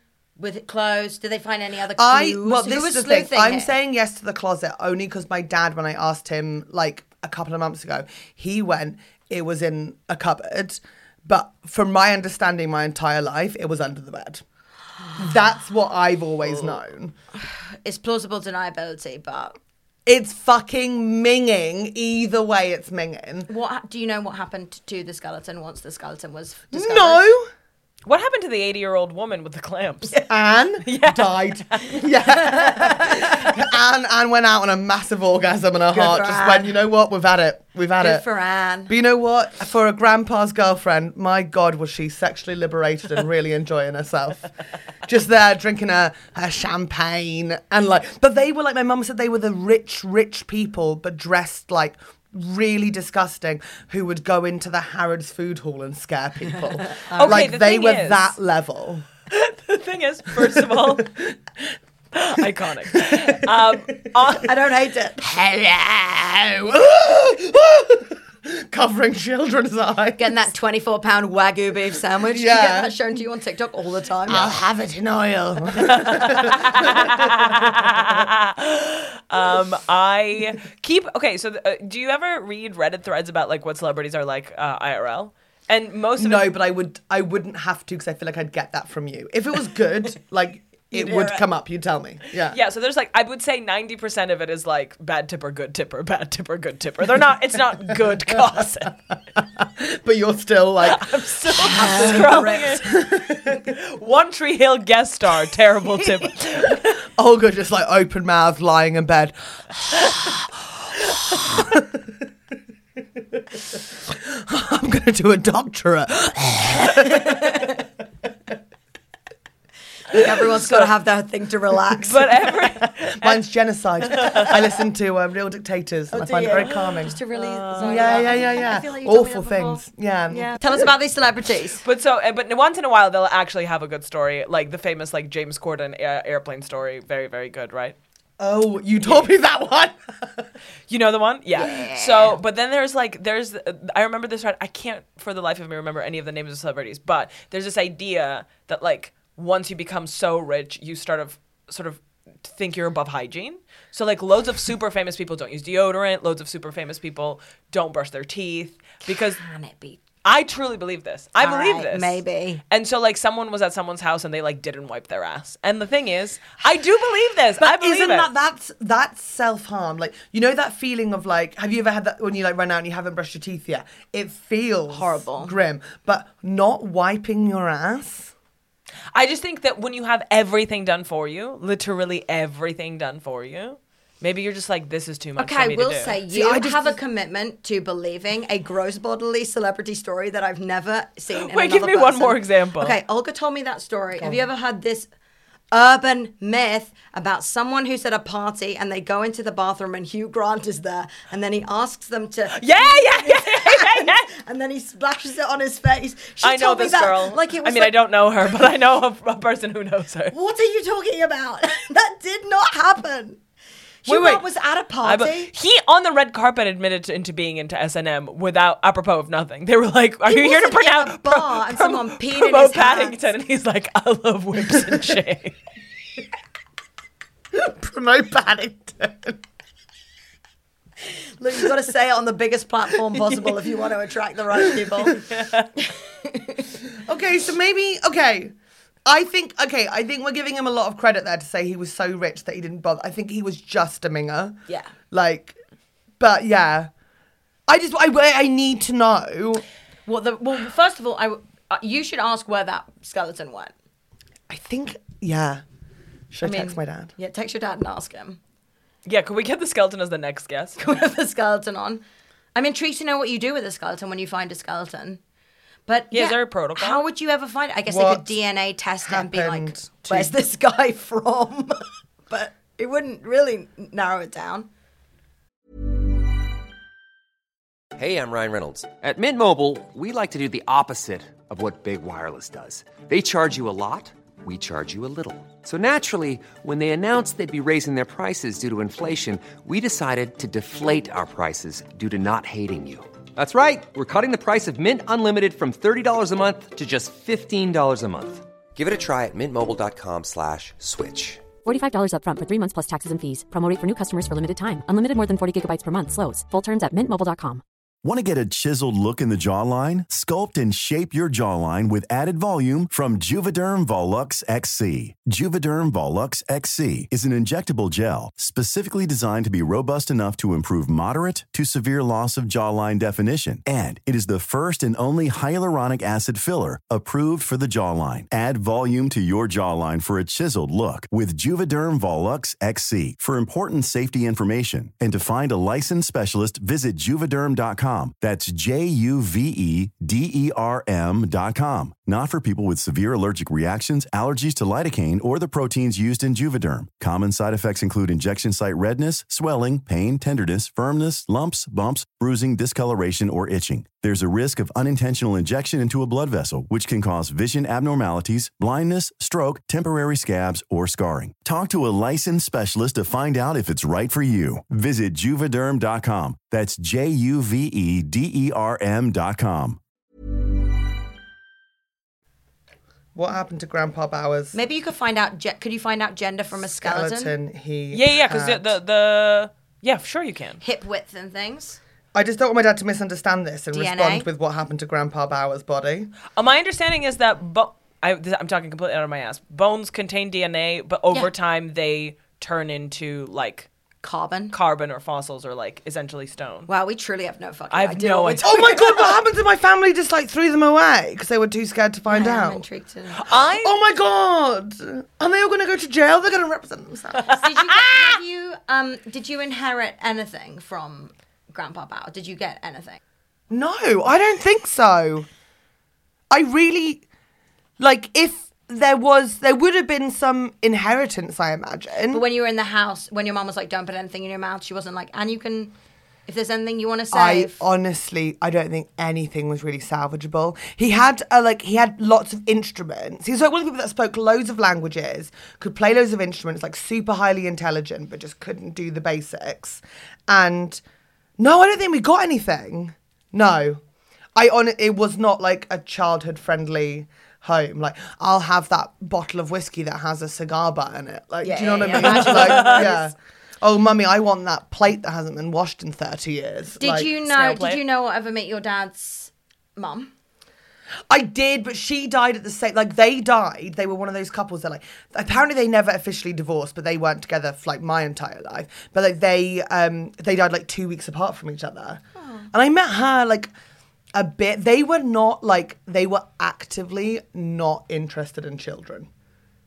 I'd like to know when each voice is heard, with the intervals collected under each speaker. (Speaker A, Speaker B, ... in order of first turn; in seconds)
Speaker A: 0.4-3.7, 17.8-19.6, 23.5-27.2, 35.9-36.8, 38.0-38.9, 57.0-57.5, 64.4-65.2, 70.2-74.5, 90.9-91.4, 101.6-102.8, 120.1-122.5, 126.1-131.8, 141.6-142.4, 159.4-160.0, 161.4-162.6, 174.9-175.6, 185.4-195.1, 195.7-207.9, 210.3-213.4, 214.0-215.5, 220.2-223.2, 231.4-235.2, 235.8-236.6, 244.7-244.9, 250.1-253.7, 256.4-258.4, 260.8-262.0, 262.5-265.2, 265.9-274.7, 374.5-377.4, 380.6-381.8, 383.7-384.2, 394.0-394.6, 396.7-399.2, 402.1-403.2, 407.3-413.0, 422.1-425.7, 426.3-427.6, 451.4-453.1, 456.8-460.1, 472.2-472.5
Speaker B: 2.0-14.4, 15.2-17.1, 20.1-23.5, 26.7-27.5, 30.1-38.2, 38.9-44.5, 45.0-59.0, 60.8-61.1, 63.0-63.4, 65.2-70.5, 72.3-72.9, 74.3-77.3, 86.2-92.6, 99.4-103.6, 107.2-111.9, 114.1-117.7, 123.0-127.2, 127.8-130.9, 138.4-140.4, 167.6-178.3, 186.3-186.9, 227.5-229.4, 237.0-238.5, 239.1-244.6, 245.1-245.6, 246.2-246.9, 247.7-249.6, 254.5-255.6, 256.3-257.1, 267.9-268.4, 269.0-270.4, 373.1-374.6, 376.7-378.7, 382.1-386.1, 398.4-402.6, 403.5-407.4, 413.5-415.3, 416.3-417.0, 417.8-422.2, 427.1-440.8, 441.4-443.8, 444.4-457.1, 461.1-472.0, 472.5-473.5, 474.1-479.1
Speaker C: 28.1-30.1, 30.9-32.1, 57.1-58.3, 59.3-61.1, 62.1-64.5, 76.0-86.5, 92.5-99.0, 100.8-102.9, 103.6-107.0, 122.1-123.5, 124.1-124.5, 127.3-128.4, 131.8-137.9, 139.0-139.3, 140.9-159.4, 160.2-168.3, 179.1-186.2, 191.3-193.0, 202.5-204.3, 206.4-210.3, 214.1-214.4, 215.0-225.5, 235.2-235.7, 259.0-260.8, 266.1-267.0, 377.9-380.6, 386.3-393.7, 394.5-396.7, 397.7-398.5, 403.2-403.7, 451.9-452.9, 457.2-457.8
Speaker D: 277.9-301.5
Speaker E: 301.6-307.6
Speaker F: 308.0-369.8